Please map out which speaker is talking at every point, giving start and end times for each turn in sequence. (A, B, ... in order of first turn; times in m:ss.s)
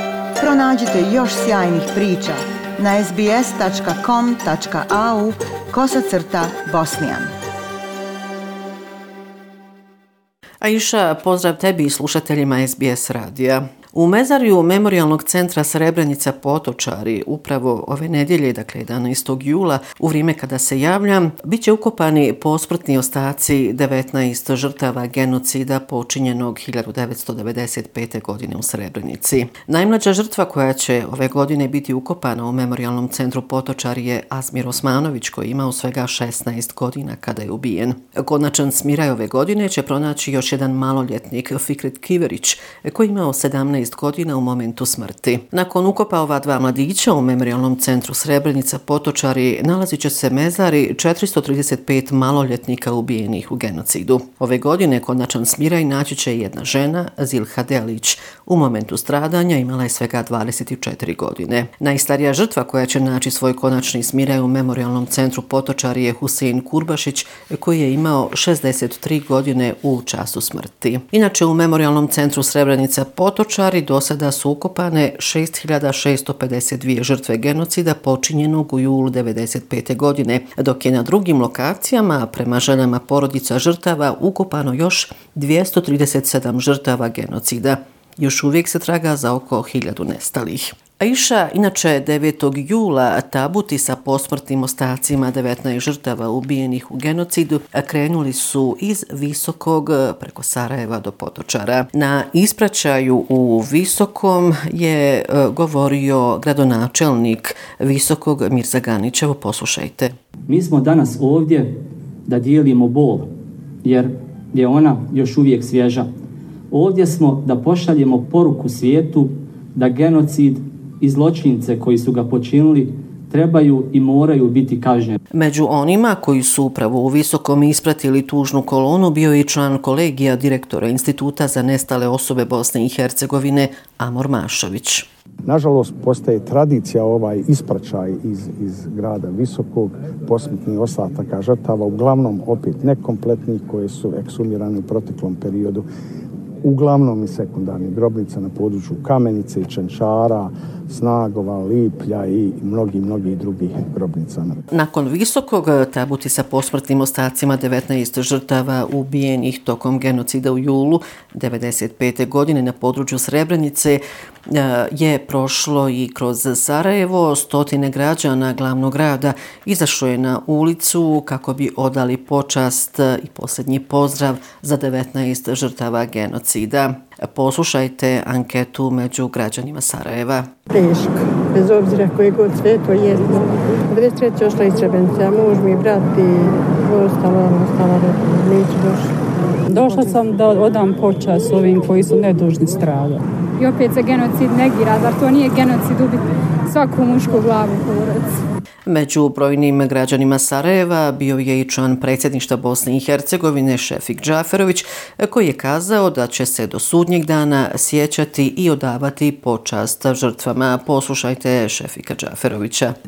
0:00.4-0:07.3 A
0:10.6-1:50.1 B
1:50.5-1:51.7 C
1:52.2-1:53.3 C
1:53.8-1:56.1 C
1:56.7-2:05.2 C
2:05.3-2:15.1 B
2:15.4-2:25.8 D
2:26.6-2:34.6 D
2:34.7-3:00.5 B
3:00.7-3:09.1 E
3:09.7-3:13.2 F
3:13.6-3:18.4 G
3:18.9-3:32.9 B